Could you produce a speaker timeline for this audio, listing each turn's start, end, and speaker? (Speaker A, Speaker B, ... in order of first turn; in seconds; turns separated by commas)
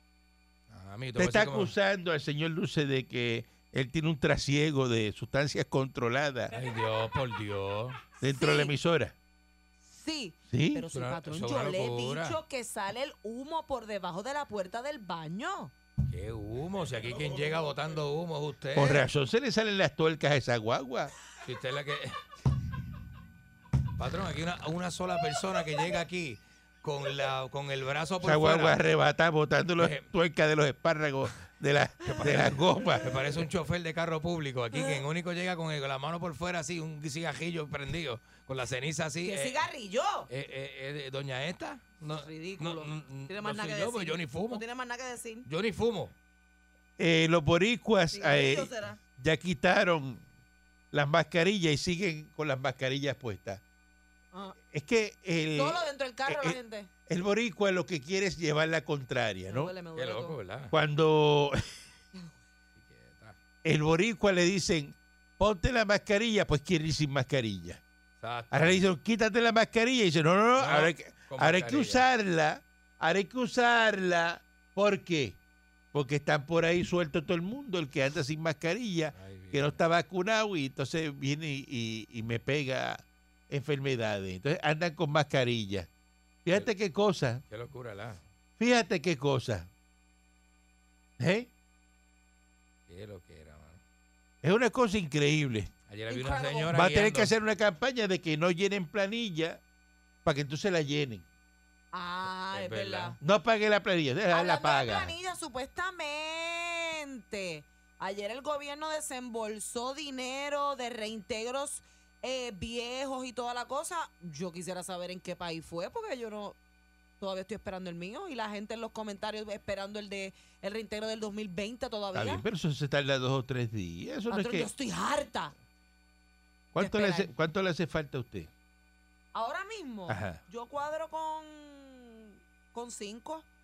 Speaker A: 0.7-1.7, Speaker B: 1.2-6.5, Speaker A: 6.5-8.0, Speaker B: 8.2-9.2, Speaker C: 8.2-8.7, Speaker C: 9.8-15.7, Speaker B: 10.5-10.9, Speaker A: 10.9-12.4, Speaker A: 16.1-19.1, Speaker B: 18.8-21.1, Speaker A: 21.4-22.2, Speaker A: 24.0-28.8, Speaker B: 28.2-33.2, Speaker A: 29.8-30.1, Speaker A: 32.0-39.6, Speaker C: 34.7-35.0, Speaker C: 39.2-40.3, Speaker A: 40.3-44.6, Speaker C: 42.2-45.5, Speaker A: 45.5-46.1, Speaker B: 47.0-50.2, Speaker C: 48.1-49.0, Speaker B: 50.9-53.6, Speaker B: 54.7-59.7, Speaker C: 55.6-56.9, Speaker C: 59.5-60.4, Speaker A: 60.0-60.8, Speaker B: 60.7-61.7, Speaker A: 62.8-63.4, Speaker B: 63.6-67.8, Speaker A: 68.2-68.8, Speaker B: 68.5-75.4, Speaker A: 70.6-72.1, Speaker B: 75.9-85.9, Speaker A: 79.1-79.8, Speaker B: 86.5-87.4, Speaker A: 87.5-88.2, Speaker B: 88.6-89.7, Speaker B: 91.2-91.5, Speaker A: 92.9-93.8, Speaker B: 94.4-95.7, Speaker A: 95.9-97.3, Speaker C: 96.1-96.7, Speaker B: 96.7-99.6, Speaker B: 100.2-101.2, Speaker C: 101.9-103.2, Speaker A: 102.5-103.2, Speaker B: 103.2-105.2, Speaker C: 104.3-116.6, Speaker C: 117.2-122.4, Speaker B: 122.1-124.7, Speaker C: 124.3-125.5, Speaker B: 126.7-128.5, Speaker C: 126.8-127.3, Speaker C: 129.3-133.5, Speaker B: 130.1-130.4